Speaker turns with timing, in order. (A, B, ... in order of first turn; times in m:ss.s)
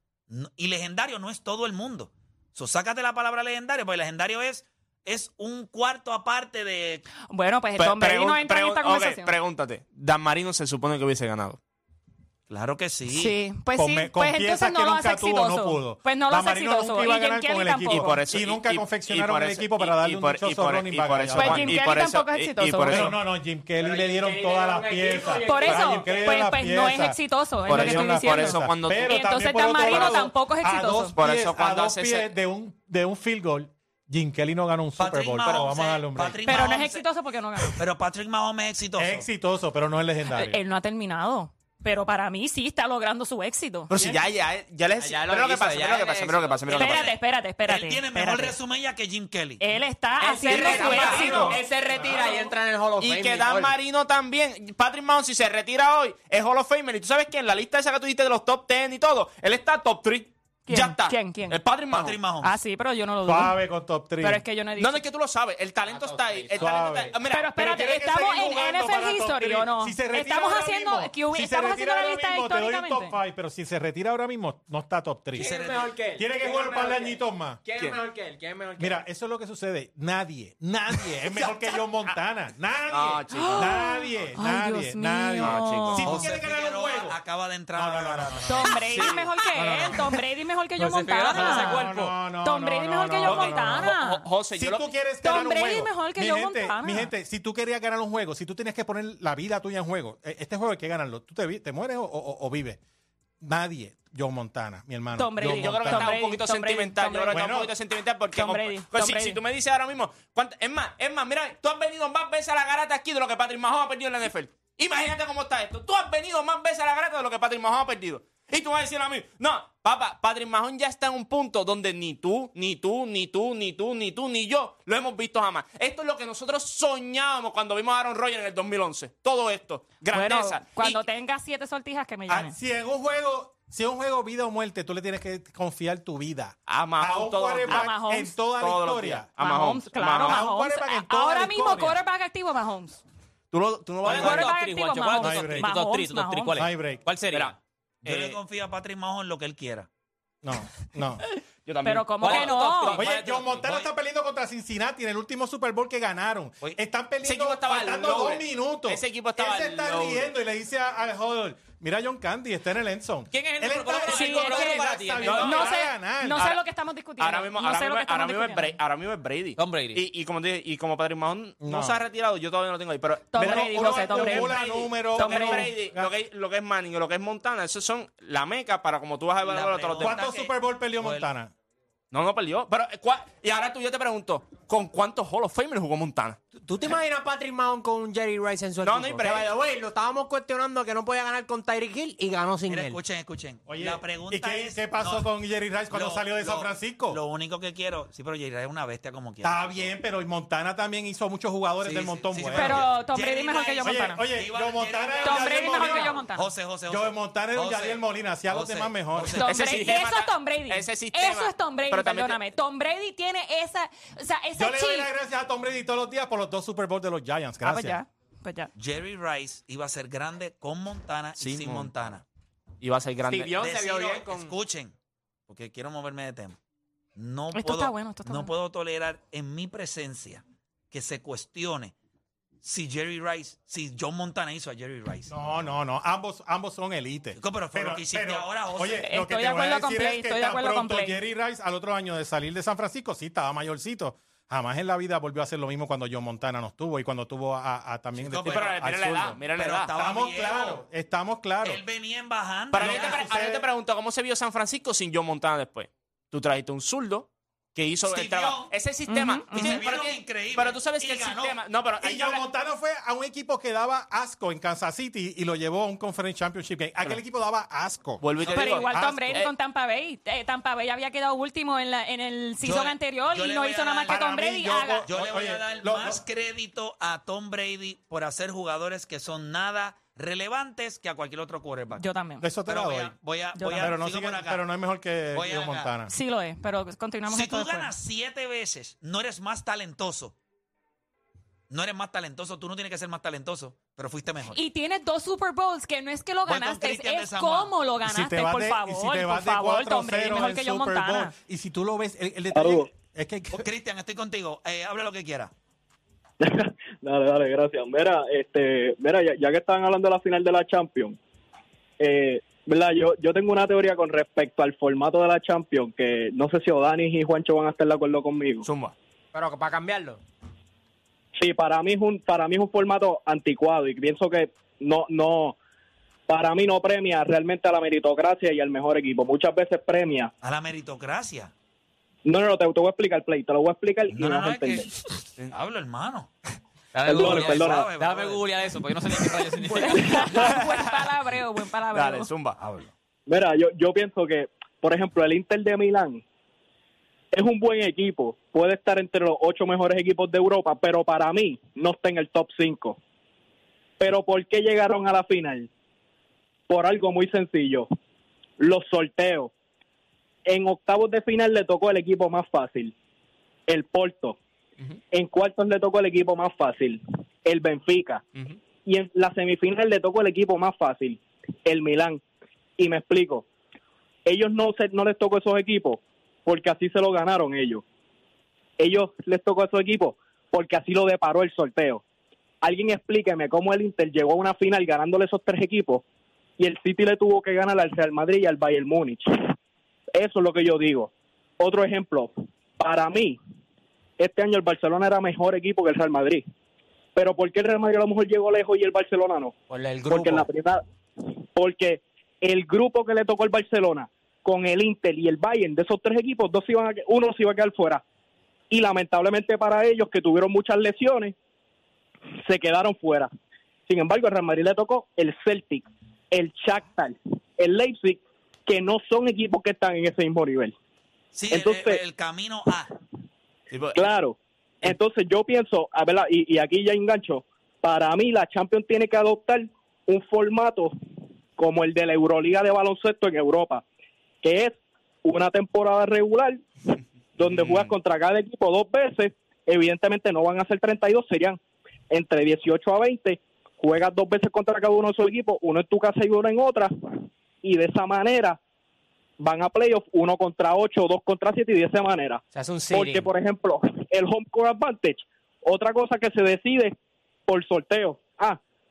0:00.3-0:07.0 A
0:07.3-0:09.3 B
0:07.8-0:11.6 C
0:12.5-0:13.4 A
0:13.1-0:18.1 B
0:13.8-0:21.8 D
0:17.9-0:23.2 C
0:21.4-0:23.2 B
0:22.9-0:36.5 D
0:23.8-0:26.4 E
0:25.4-0:31.2 B
0:27.7-0:30.2 C
0:31.2-0:32.4 C
0:35.0-0:37.0 A
0:36.4-0:37.8 B
0:37.7-0:39.3 A
0:39.0-0:40.6 D
0:40.3-0:43.9 B
0:43.9-0:47.1 C
0:45.0-0:46.8 F
0:46.7-0:48.1 B
0:46.7-0:49.6 A
0:49.6-0:51.6 B
0:50.3-0:52.5 F
0:50.3-0:53.8 E
0:50.5-0:51.4 C
0:50.8-0:51.4 A
0:53.0-1:02.2 C
1:00.7-1:01.6 B
1:01.9-1:02.5 A
1:02.4-1:03.6 B
1:03.2-1:04.4 D
1:04.2-1:05.0 B
1:04.8-1:07.5 C
1:05.9-1:06.9 F
1:06.6-1:15.6 D
1:07.2-1:13.2 B
1:15.3-1:19.0 E
1:15.5-1:15.8 A
1:16.2-1:17.6 D
1:18.8-1:27.2 D
1:21.3-1:21.8 C
1:22.9-1:23.8 C
1:23.3-1:26.1 B
1:25.4-1:26.3 C
1:26.0-1:28.8 A
1:27.7-1:30.2 D
1:28.5-1:34.3 B
1:30.8-1:32.2 F
1:31.2-1:34.0 D
1:33.2-1:34.9 C
1:34.6-1:42.8 D
1:35.2-1:37.1 B
1:43.4-1:46.1 D
1:45.2-1:47.5 B
1:45.4-2:11.0 C
1:47.3-1:47.7 D
1:48.3-1:49.4 B
2:10.1-2:12.5 B
2:12.3-2:19.3 D
2:16.7-2:18.0 C
2:17.7-2:18.4 B
2:18.5-2:20.5 C
2:19.4-2:23.0 B
2:20.1-2:22.0 D
2:23.5-2:24.5 C
2:24.0-2:27.6 F
2:24.1-2:26.7 B
2:25.2-2:25.7 D
2:26.6-2:27.1 D
2:27.3-2:28.4 C
2:28.0-2:29.9 A
2:30.4-2:31.2 D
2:31.6-2:33.4 C
2:31.8-2:33.1 B
2:32.2-2:33.4 F
2:32.9-2:46.5 D
2:33.6-2:33.9 A
2:37.2-2:40.4 C
2:43.3-2:45.6 F
2:44.0-2:45.8 C
2:44.1-2:48.8 B
2:47.2-3:00.2 C
2:49.6-2:50.0 F
2:51.6-2:52.0 D
2:53.3-2:55.7 B
2:53.4-2:56.1 D
2:59.4-3:01.3 A
3:00.0-3:01.5 D
3:02.1-3:06.4 C
3:06.6-3:13.0 E
3:08.8-3:09.5 C
3:12.7-3:15.3 A
3:13.7-3:17.2 D
3:15.9-3:19.9 A
3:19.4-3:22.9 D
3:21.8-3:29.6 A
3:22.5-3:24.2 B
3:23.8-3:26.2 D
3:25.2-3:26.5 B
3:26.9-3:29.4 D
3:29.4-3:35.1 B
3:29.4-3:32.6 C
3:34.6-3:38.0 D
3:37.6-3:38.7 B
3:38.8-3:42.2 A
3:41.4-3:42.2 C
3:42.8-3:43.6 C
3:43.2-3:44.5 E
3:43.6-3:44.9 A
3:45.5-3:46.6 A
3:47.2-3:51.9 A
3:47.5-3:48.5 B
3:52.6-3:55.6 A
3:55.3-4:11.8 D
3:57.4-3:59.1 A
3:59.0-4:01.2 B
4:08.2-4:08.9 A
4:08.4-4:09.9 C
4:09.5-4:10.8 A
4:11.6-4:13.2 A
4:12.7-4:22.4 C
4:12.7-4:13.7 D
4:18.1-4:18.7 A
4:19.1-4:19.8 B
4:19.5-4:21.6 A
4:22.0-4:29.1 D
4:28.2-4:29.5 C
4:28.5-4:35.1 B
4:32.6-4:34.2 A
4:34.1-4:36.2 D
4:35.1-4:42.0 A
4:42.0-4:42.5 B
4:42.4-4:43.2 D
4:42.7-4:44.6 A
4:43.6-4:44.0 B
4:43.7-4:46.1 D
4:45.3-4:45.9 A
4:46.1-4:47.9 B
4:47.3-4:50.4 A
4:51.7-4:54.6 A
4:54.5-5:01.3 B
4:56.5-4:57.7 A
4:58.0-5:03.7 D
5:02.5-5:02.9 G
5:03.5-5:05.5 A
5:06.4-5:11.2 G
5:12.0-5:18.7 G
5:18.6-5:18.9 C
5:19.3-5:20.2 E
5:21.4-5:25.6 G
5:26.3-5:30.3 G
5:30.4-5:31.5 A
5:32.2-5:34.9 G
5:34.1-5:36.3 A
5:36.9-5:40.6 F
5:37.1-5:37.9 G
5:37.1-5:38.5 A
5:39.6-5:42.3 B
5:40.0-5:40.2 G
5:40.3-5:41.0 C
5:41.9-5:42.6 C
5:42.6-5:42.9 A
5:43.3-5:46.2 G
5:47.3-5:53.0 G
5:54.0-5:55.7 G
5:56.7-5:57.9 G
5:58.6-5:59.5 G
6:00.5-6:02.9 G
6:03.7-6:04.4 G
6:05.1-6:08.2 G
6:08.8-6:12.2 G
6:12.8-6:13.4 G
6:14.3-6:17.8 G
6:18.8-6:22.0 G
6:22.6-6:26.0 G
6:26.6-6:29.5 G
6:30.1-6:33.4 G
6:34.2-6:36.4 G
6:37.2-6:48.0 G
6:39.7-6:40.5 E
6:48.7-6:51.4 G
6:52.4-6:53.3 G
6:53.9-7:00.7 G
7:01.3-7:02.9 A
7:01.5-7:02.0 G
7:03.7-7:04.0 C
7:04.0-7:10.9 G
7:11.6-7:13.8 G
7:14.4-7:28.6 G
7:17.4-7:17.9 C
7:29.4-7:36.9 G
7:32.5-7:33.3 E
7:37.5-7:38.6 G